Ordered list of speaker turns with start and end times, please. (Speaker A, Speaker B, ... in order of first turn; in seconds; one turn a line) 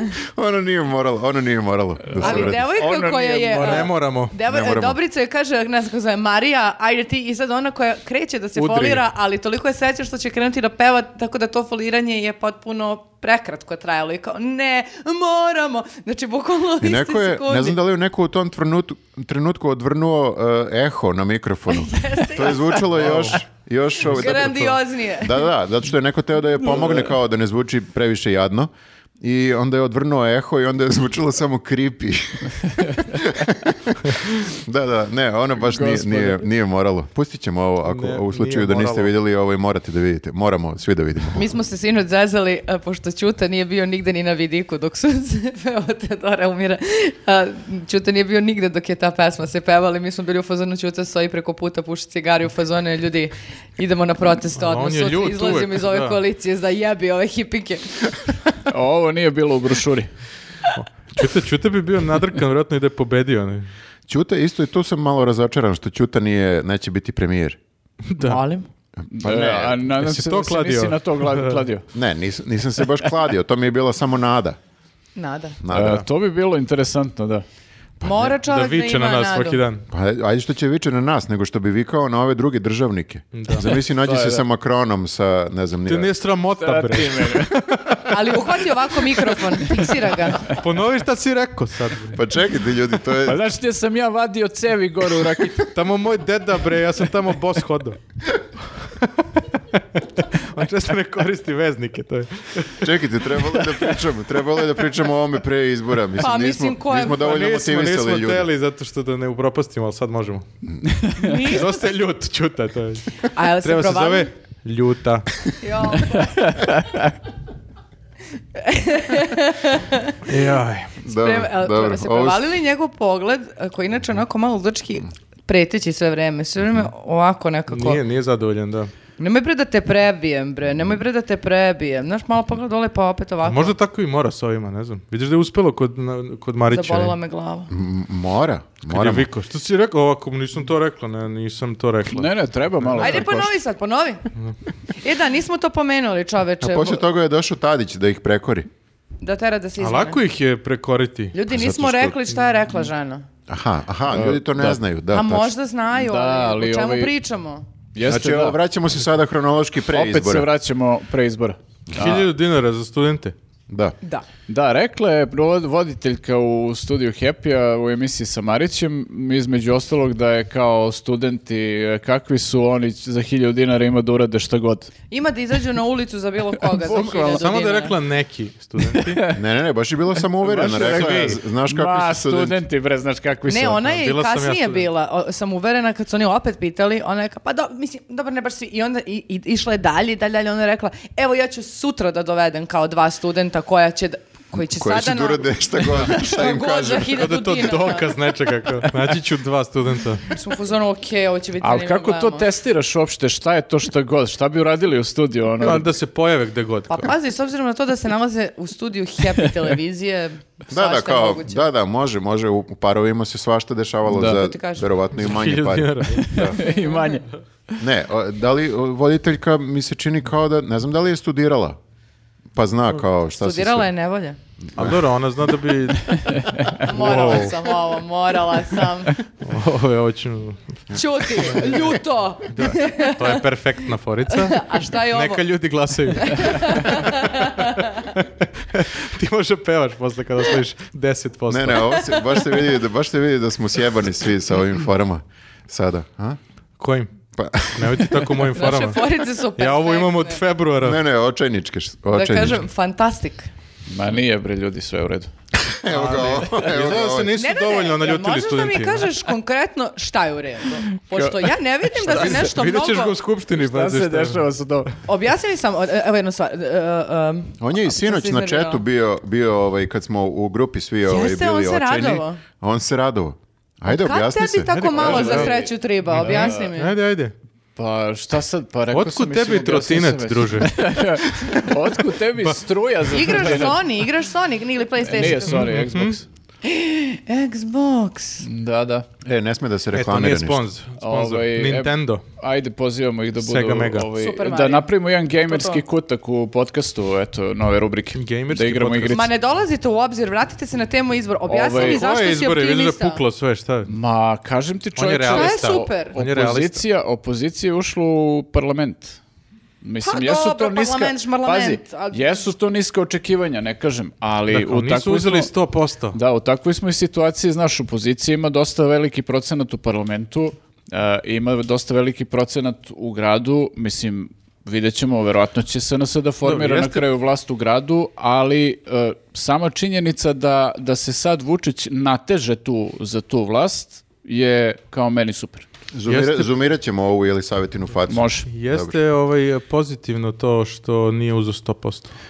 Speaker A: 0.2-2.6
Speaker B: 2.1-3.9
Speaker C: 2.2-17.8
Speaker D: 3.6-4.3
Speaker A: 4.4-5.0
Speaker D: 8.6-9.0
Speaker A: 16.8-28.7
Speaker C: 21.7-23.2
Speaker D: 22.9-23.4
Speaker C: 24.0-25.5
Speaker D: 24.0-24.8
Speaker B: 26.6-27.1
Speaker A: 29.2-41.4
Speaker B: 35.6-36.5
Speaker D: 37.9-39.1
Speaker C: 41.3-58.1
Speaker D: 54.6-56.2
Speaker B: 58.7-60.1
Speaker D: 60.7-63.7
Speaker A: 64.1-67.6
Speaker D: 68.1-68.4
Speaker C: 68.2-68.7
Speaker A: 69.0-69.8
Speaker B: 69.1-71.8
Speaker D: 69.9-71.6
Speaker A: 71.9-74.6
Speaker C: 75.2-75.6
Speaker A: 75.6-76.0
Speaker B: 75.7-77.4
Speaker D: 75.8-76.0
Speaker A: 78.0-78.3
Speaker C: 78.0-79.6
Speaker D: 78.4-79.9
Speaker A: 79.9-86.1
Speaker D: 83.3-83.7
Speaker B: 83.5-84.4
Speaker D: 85.8-88.2
Speaker B: 86.6-88.0
Speaker C: 88.1-90.5
Speaker B: 89.2-89.9
Speaker D: 90.5-92.2
Speaker A: 92.1-93.4
Speaker B: 93.2-95.7
Speaker D: 95.7-98.0
Speaker D: 98.8-99.2
Speaker D: 99.7-102.9
Speaker A: 102.8-108.5
Speaker C: 106.2-107.2
Speaker D: 107.1-110.5
Speaker C: 111.2-111.8
Speaker D: 111.3-115.4
Speaker C: 113.3-114.3
Speaker C: 115.6-116.4
Speaker B: 116.2-117.1
Speaker C: 118.5-120.2
Speaker D: 120.2-120.9
Speaker A: 121.0-122.4
Speaker C: 121.0-128.0
Speaker D: 127.7-128.9
Speaker C: 129.2-133.7
Speaker D: 133.4-137.2
Speaker C: 136.7-137.7
Speaker A: 137.7-139.3
Speaker D: 138.9-143.3
Speaker B: 142.1-143.5
Speaker C: 143.0-144.2
Speaker C: 145.0-147.0
Speaker A: 146.6-148.7
Speaker C: 149.2-150.2
Speaker D: 149.8-151.3
Speaker C: 151.3-153.3
Speaker A: 151.5-152.2
Speaker A: 153.5-155.5
Speaker B: 154.1-154.8
Speaker C: 155.1-157.7
Speaker B: 155.9-157.1
Speaker B: 157.9-158.6
Speaker A: 158.0-160.5
Speaker B: 159.9-162.2
Speaker D: 161.9-163.3
Speaker A: 163.7-163.9
Speaker B: 164.5-174.9
Speaker C: 175.1-177.9
Speaker B: 176.6-177.5
Speaker D: 177.2-179.2
Speaker B: 178.8-179.4
Speaker A: 179.3-182.6
Speaker B: 180.3-183.8
Speaker C: 183.4-198.2
Speaker D: 183.8-184.9
Speaker A: 194.5-197.2
Speaker D: 197.1-200.2
Speaker C: 200.3-202.4
Speaker B: 201.6-205.9
Speaker D: 205.6-207.1
Speaker C: 206.9-211.7
Speaker A: 210.7-216.6
Speaker B: 214.1-214.4
Speaker C: 214.2-214.9
Speaker D: 215.1-216.6
Speaker B: 216.2-217.3
Speaker C: 216.5-217.2
Speaker A: 217.8-221.8
Speaker A: 222.5-223.9
Speaker C: 223.3-224.4
Speaker A: 224.7-225.0
Speaker D: 224.8-227.6
Speaker C: 226.8-229.2
Speaker D: 229.4-230.6
Speaker C: 230.9-233.4
Speaker D: 231.4-232.0
Speaker D: 232.5-242.0
Speaker C: 234.3-235.4
Speaker C: 236.1-238.1
Speaker A: 241.5-246.4
Speaker C: 242.1-242.4
Speaker D: 246.8-247.1
Speaker A: 247.3-248.4
Speaker D: 247.7-249.0
Speaker C: 248.5-250.4
Speaker D: 249.6-251.0
Speaker A: 250.8-252.6
Speaker C: 252.1-253.5
Speaker B: 253.9-255.3
Speaker A: 255.5-257.4
Speaker D: 255.9-259.1
Speaker C: 257.4-263.2
Speaker B: 261.1-261.5
Speaker D: 262.0-264.4
Speaker B: 263.5-265.0
Speaker C: 265.1-268.8
Speaker A: 267.6-275.1
Speaker C: 271.0-272.4
Speaker C: 273.8-277.0
Speaker D: 274.7-277.3
Speaker B: 274.9-276.7
Speaker B: 277.8-283.8
Speaker D: 278.9-281.7
Speaker C: 283.1-285.7
Speaker D: 283.1-283.7
Speaker B: 285.0-286.2
Speaker D: 285.2-286.2
Speaker C: 286.6-288.4
Speaker B: 288.4-289.1
Speaker A: 289.2-290.6
Speaker D: 289.9-292.2
Speaker B: 291.0-299.3
Speaker D: 293.4-294.1
Speaker C: 294.1-295.8
Speaker D: 298.1-299.2
Speaker C: 299.1-303.2
Speaker B: 301.5-302.0
Speaker D: 301.8-303.9
Speaker B: 303.9-309.2
Speaker D: 304.9-306.8
Speaker C: 305.3-306.2
Speaker B: 309.8-315.5
Speaker C: 310.0-312.4
Speaker D: 314.5-316.2
Speaker B: 316.1-335.7
Speaker D: 326.4-327.1
Speaker A: 335.9-339.0
Speaker D: 336.1-336.5
Speaker B: 338.1-338.5
Speaker D: 338.5-342.1